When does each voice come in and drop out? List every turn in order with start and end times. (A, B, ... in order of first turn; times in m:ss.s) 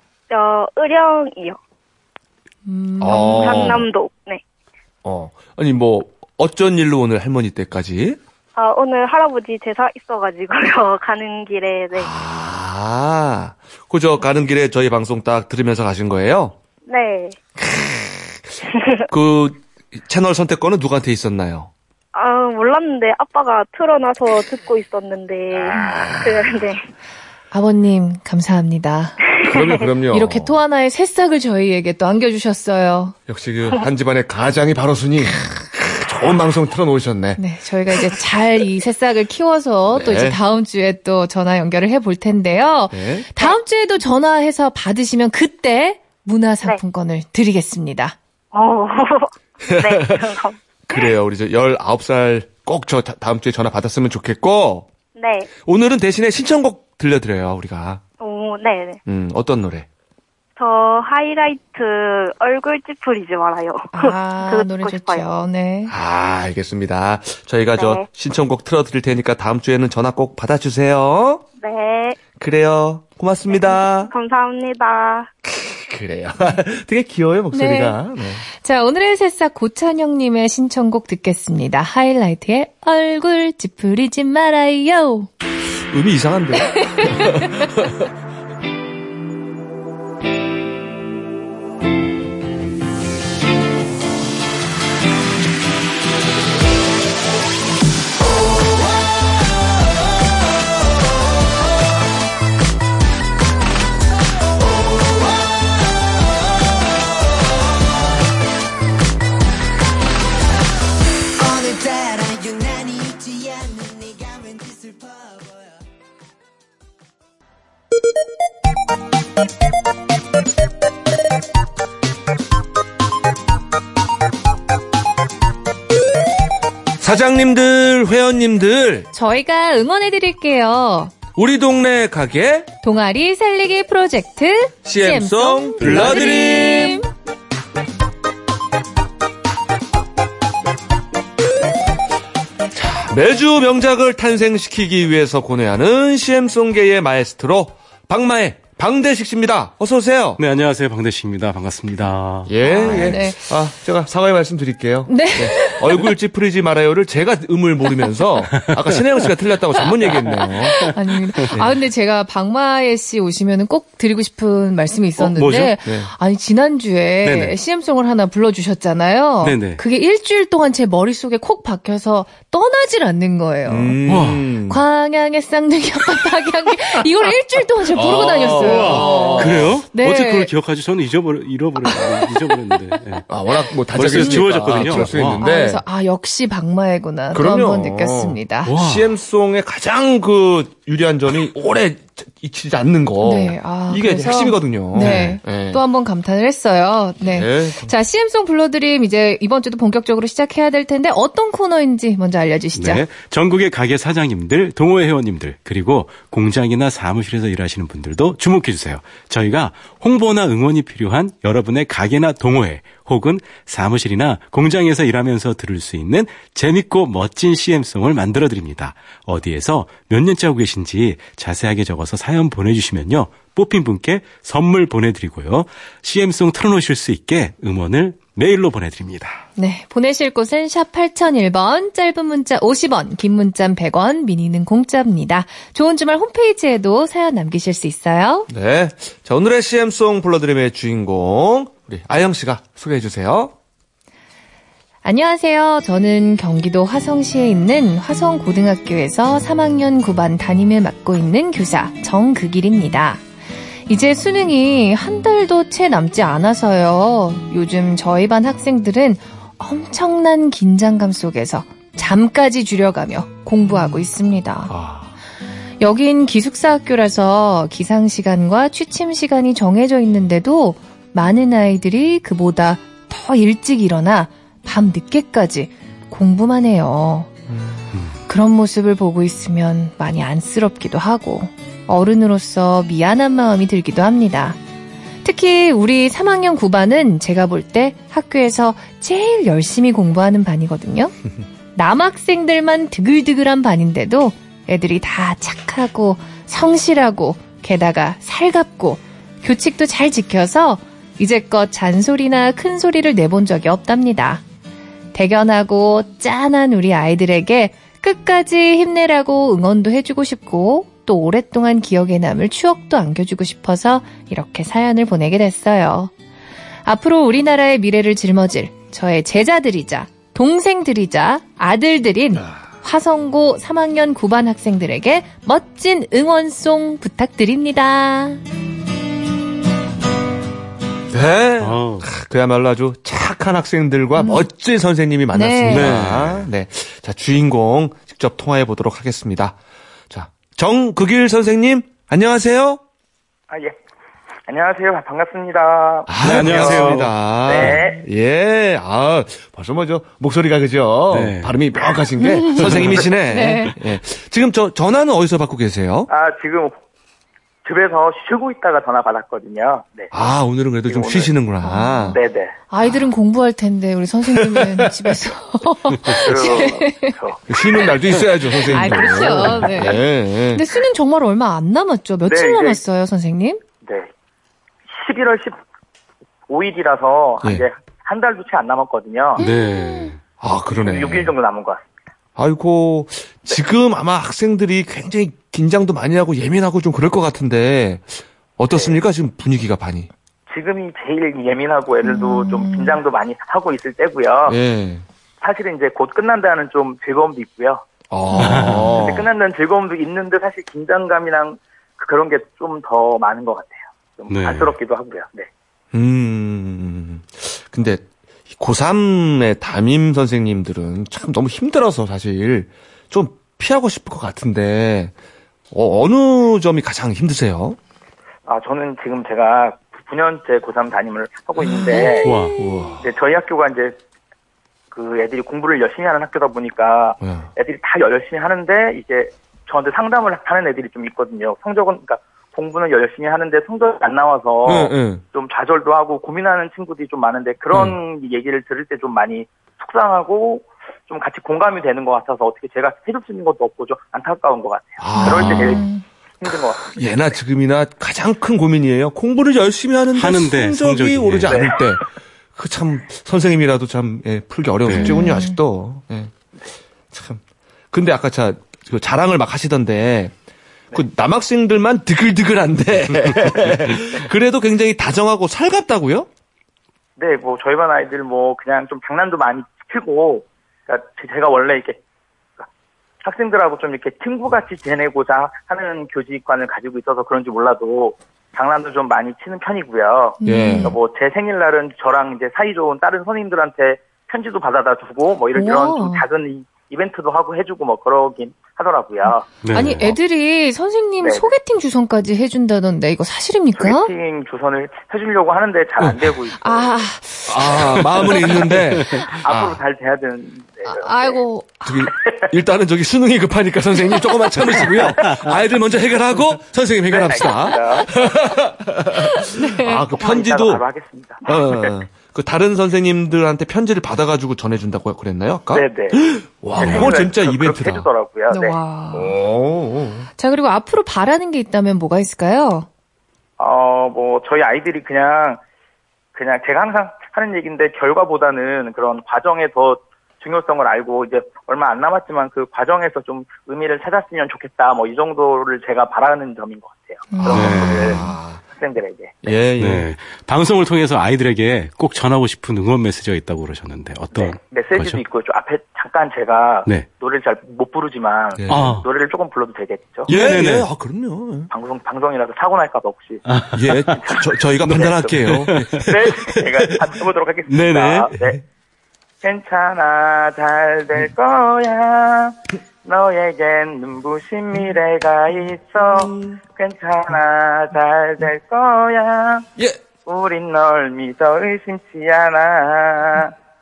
0:00.3-0:01.6 A
0:02.7-0:03.8 B
0:03.0-0:03.9 C
0:03.1-0:04.4 A
0:05.0-0:08.2 C
0:08.6-0:12.1 A
0:11.9-0:16.6 C
0:16.9-0:17.4 A
0:17.6-0:18.4 C
0:19.1-0:21.7 C
0:22.1-0:26.8 A
0:25.5-0:26.6 C
0:27.5-0:29.3 B
0:29.4-0:30.6 C
0:30.1-0:33.2 B
0:33.3-0:37.4 C
0:37.4-0:48.2 B
0:39.9-0:40.4 C
0:42.9-0:43.3 C
0:48.5-0:51.1 A
0:49.7-0:54.9 C
0:55.2-0:55.5 A
0:55.6-0:58.0 C
0:58.2-0:59.0 A
0:59.1-0:59.9 C
1:00.6-1:05.3 A
1:03.9-1:05.9 B
1:05.9-1:11.4 C
1:07.8-1:08.0 A
1:11.6-1:12.2 A
1:12.3-1:14.1 C
1:13.5-1:15.3 A
1:15.5-1:18.4 C
1:17.5-1:25.3 B
1:25.9-1:28.1 C
1:26.6-1:27.6 B
1:51.4-1:55.8 D
2:07.0-2:09.1 C
2:09.1-2:11.2 B
2:11.4-2:12.7 C
2:12.8-2:17.1 B
2:14.8-2:17.0 C
2:22.7-2:30.4 C
2:30.4-2:33.1 E
2:32.5-2:40.9 C
2:32.7-2:33.4 B
2:35.1-2:36.0 B
2:40.8-2:54.0 B
2:41.5-2:41.8 C
2:45.2-2:45.7 E
2:45.8-2:46.1 C
2:47.2-2:47.6 E
2:49.4-2:49.8 E
2:53.7-2:54.8 C
2:54.1-2:54.5 E
2:54.7-3:00.5 B
2:57.9-2:59.8 C
2:58.0-3:03.2 E
3:03.3-3:05.8 C
3:03.9-3:05.4 E
3:04.1-3:08.7 B
3:07.3-3:15.8 C
3:08.7-3:09.1 E
3:13.2-3:23.0 B
3:15.0-3:15.4 E
3:17.2-3:17.9 C
3:22.8-3:49.4 E
3:49.6-3:58.5 B
3:58.5-4:03.5 C
4:05.0-4:13.2 B
4:13.9-4:24.7 B
4:24.7-4:25.1 C
4:25.8-4:37.3 B
4:37.5-4:37.8 C
4:38.3-4:44.6 B
4:45.2-4:51.1 B
4:51.8-5:04.4 B
5:05.1-5:16.1 B
5:16.8-5:28.4 B
5:31.1-5:39.6 C
5:31.6-5:32.1 E
5:34.2-5:34.5 B
5:35.3-5:35.9 B
5:35.7-5:36.5 E
5:40.1-5:42.8 C
5:43.5-5:43.8 F
5:44.5-5:48.0 F
5:46.1-5:56.1 C
5:46.2-5:47.8 E
5:51.1-5:51.5 E
5:52.2-5:52.7 B
5:53.3-5:53.8 B
5:56.1-5:56.8 F
5:57.6-6:00.1 F
6:00.1-6:02.2 C
6:00.9-6:01.3 F
6:01.6-6:02.2 B
6:02.1-6:02.5 F
6:02.7-6:07.2 B
6:04.3-6:05.1 C
6:06.1-6:07.7 F
6:07.5-6:10.6 C
6:08.7-6:13.6 B
6:12.3-6:12.8 F
6:13.8-6:14.1 F
6:14.9-6:15.6 F
6:16.5-6:19.4 F
6:19.4-6:20.2 B
6:19.4-6:20.2 E
6:20.4-6:21.3 C
6:20.7-6:21.8 F
6:22.4-6:30.1 C
6:28.7-6:29.0 F
6:30.5-6:34.6 F
6:32.0-6:33.0 B
6:34.5-6:35.0 C
6:35.4-6:37.9 F
6:38.1-6:39.3 C
6:38.4-6:39.0 E
6:38.9-6:45.5 F
6:44.3-6:44.8 E
6:45.9-6:55.1 C
6:55.7-6:57.8 C
6:58.5-7:02.3 F
7:01.9-7:02.4 B
7:02.2-7:02.6 E
7:02.6-7:03.1 C
7:03.0-7:04.0 F
7:04.9-7:25.9 F
7:07.2-7:07.5 C
7:14.6-7:15.2 C
7:25.0-7:25.8 C
7:25.1-7:26.0 B
7:26.4-7:27.1 F
7:26.8-7:32.0 C
7:30.1-7:31.6 E
7:31.5-7:31.8 F
7:32.6-7:36.3 C
7:34.9-7:35.1 E
7:34.9-7:35.6 B
7:37.1-7:40.3 C
7:40.9-7:46.3 C
7:47.2-7:52.0 F
7:53.2-8:09.5 F
8:00.4-8:01.0 B
8:00.4-8:01.0 C
8:05.6-8:06.2 B
8:09.6-8:10.2 E
8:09.7-8:14.1 B
8:11.2-8:11.5 F
8:13.8-8:16.9 F
8:16.0-8:16.4 C
8:16.6-8:18.4 B
8:17.5-8:19.8 C
8:19.4-8:21.4 F
8:20.8-8:22.0 B
8:21.8-8:30.8 C
8:22.2-8:22.5 F
8:27.1-8:28.2 F
8:29.5-8:30.0 B
8:30.1-8:31.9 F
8:31.4-8:38.1 C
8:35.7-8:36.2 F
8:36.7-8:38.8 F
8:38.5-8:39.4 B
8:39.1-8:40.3 C
8:40.4-8:42.9 B
8:43.6-8:45.6 F
8:46.4-8:59.6 F
8:57.3-8:58.3 B
8:57.5-8:58.2 E
8:57.5-8:58.6 C
8:59.4-9:00.1 C
8:59.8-9:05.2 E
9:04.3-9:10.3 F
9:08.6-9:08.9 C
9:08.7-9:09.0 E
9:10.3-9:11.7 C
9:10.3-9:10.9 E
9:11.7-9:13.4 F
9:13.5-9:14.2 E
9:13.7-9:16.6 C
9:14.2-9:18.6 F
9:15.4-9:16.1 E
9:17.7-9:18.6 C
9:17.8-9:18.2 E
9:19.4-9:29.7 F
9:26.1-9:26.6 C
9:30.3-9:33.6 F